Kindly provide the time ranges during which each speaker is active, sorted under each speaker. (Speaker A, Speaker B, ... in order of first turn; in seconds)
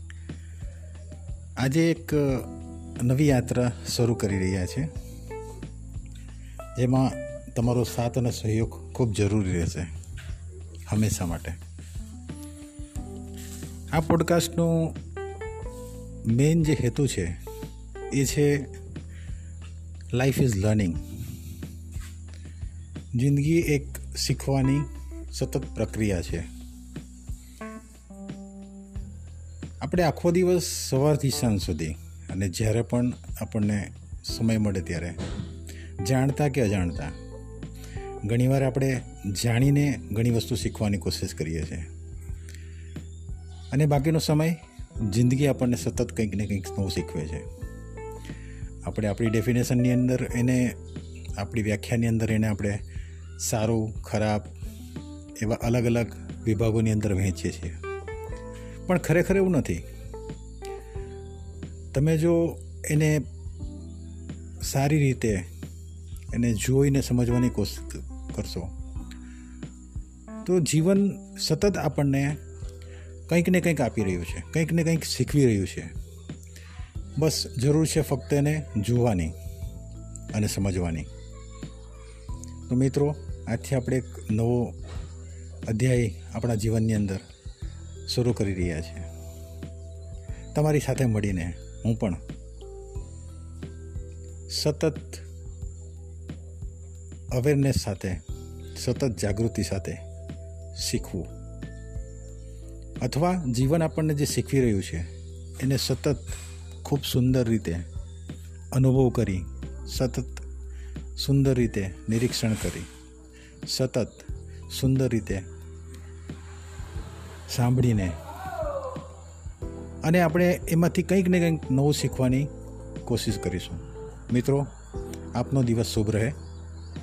Speaker A: 1.6-4.9, 6.8-9.9, 10.9-11.6, 13.9-15.0, 16.3-17.4, 18.1-18.7, 20.1-21.0, 23.1-26.5, 29.8-35.2, 36.0-37.1, 38.2-41.9, 43.7-47.5, 48.8-50.8, 51.4-52.8, 53.4-54.5, 55.4-57.8, 58.9-59.9, 61.9-63.3, 64.6-65.5, 66.3-68.7, 70.4-72.4, 73.3-75.9, 77.2-79.3, 80.3-81.1, 82.7-84.8, 85.7-87.2, 88.1-89.1, 90.5-92.2, 94.5-95.2, 97.3-98.2, 98.7-100.0, 100.7-101.3, 103.0-107.8, 108.7-110.5, 111.2-112.9, 113.7-115.5, 117.5-118.2, 120.0-122.5, 123.0-124.7, 125.3-126.4